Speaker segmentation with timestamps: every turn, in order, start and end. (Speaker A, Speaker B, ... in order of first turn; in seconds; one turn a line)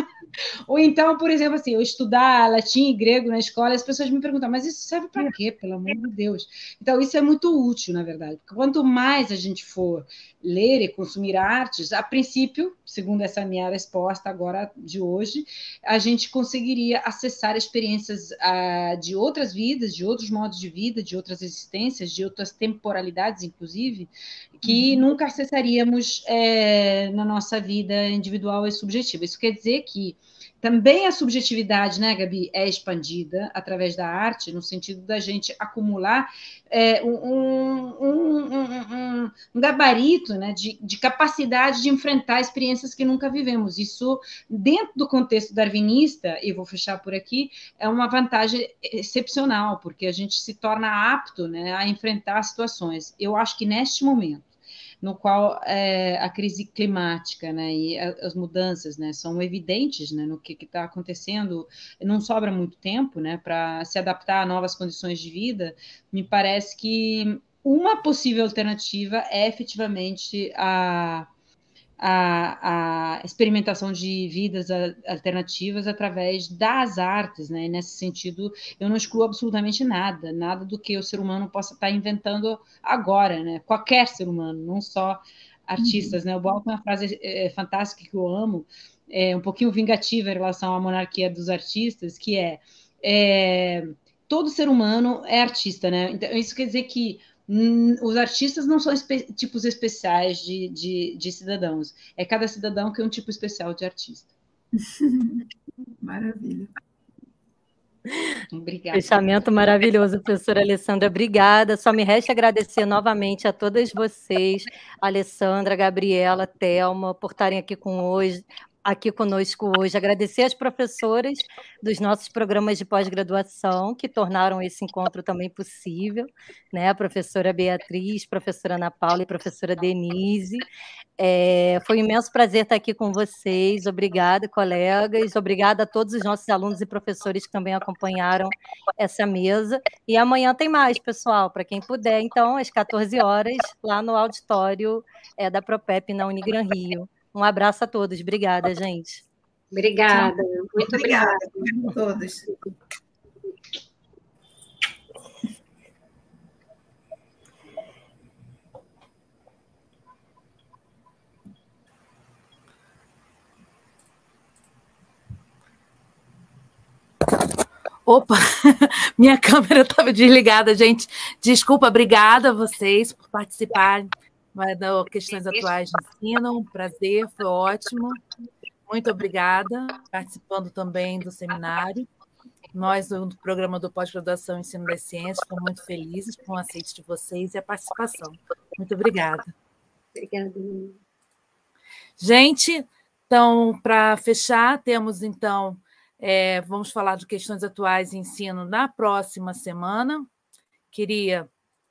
Speaker A: 0.7-54.5
Speaker B: 24.6-25.0
Speaker A: 55.0-71.3
Speaker A: 72.0-104.3
Speaker B: 85.8-86.1
Speaker B: 104.7-105.5
Speaker B: 106.0-106.7
Speaker A: 108.5-109.2
Speaker C: 108.9-130.6
Speaker C: 131.2-149.2
Speaker D: 149.7-151.5
Speaker B: 150.1-152.5
Speaker E: 168.1-178.2
Speaker E: 178.9-182.1
Speaker E: 182.7-189.5
Speaker D: 190.2-191.0
Speaker E: 192.2-200.3
Speaker E: 200.9-201.5